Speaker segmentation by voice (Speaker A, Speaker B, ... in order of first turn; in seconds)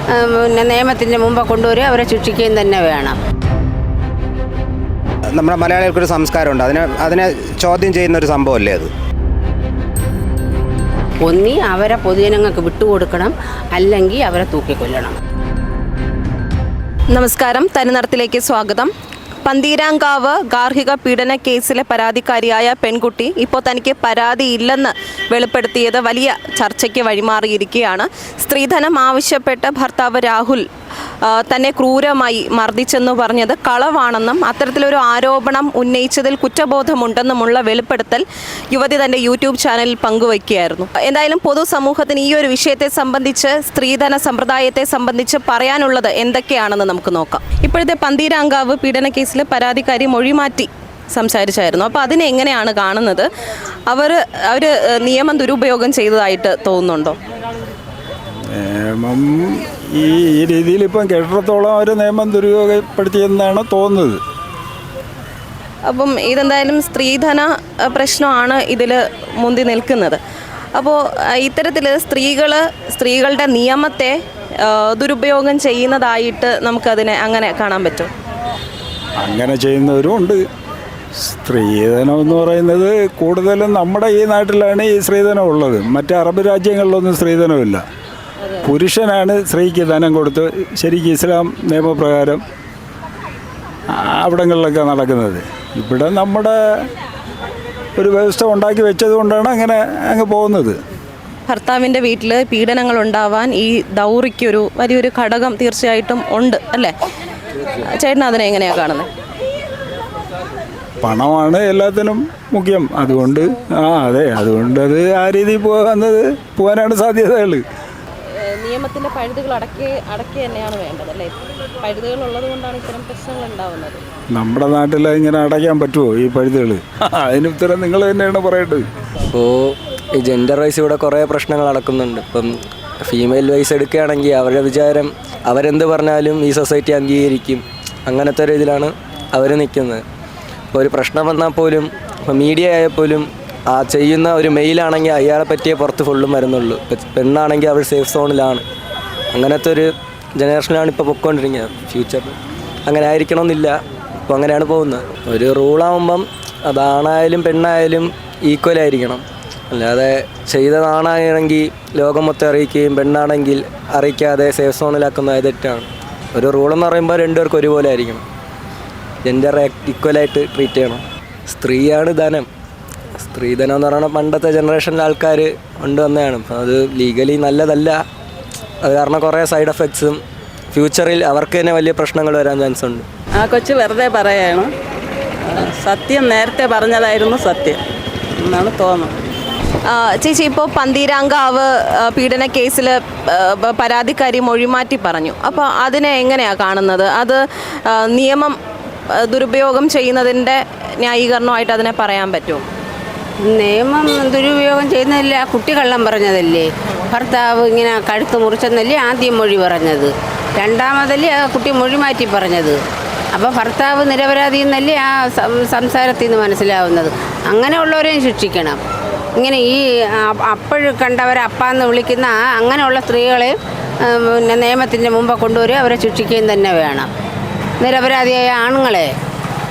Speaker A: 0.1-3.2, 11.2-15.2, 203.5-212.8, 213.3-218.8, 219.4-223.6, 224.1-227.1, 227.8-229.1
Speaker B: 5.3-8.9
Speaker C: 17.1-18.9, 19.4-30.6, 31.2-53.3, 53.9-57.2, 65.9-70.2, 70.8-74.2, 74.7-78.1, 101.5-106.9, 108.0-109.1, 118.4-124.0, 189.9-198.5, 199.2-202.6
Speaker D: 58.5-64.2, 79.2-80.4, 81.2-87.8, 88.6-92.4, 93.9-96.8, 98.0-100.8, 111.0-117.6, 124.3-128.9
Speaker E: 129.3-132.5, 133.0-140.0, 140.7-148.6, 149.3-153.8, 154.3-168.2, 169.2-172.5, 173.2-178.0, 178.8-180.2, 180.7-183.1
Speaker F: 183.3-184.7, 185.5-187.8, 188.4-189.2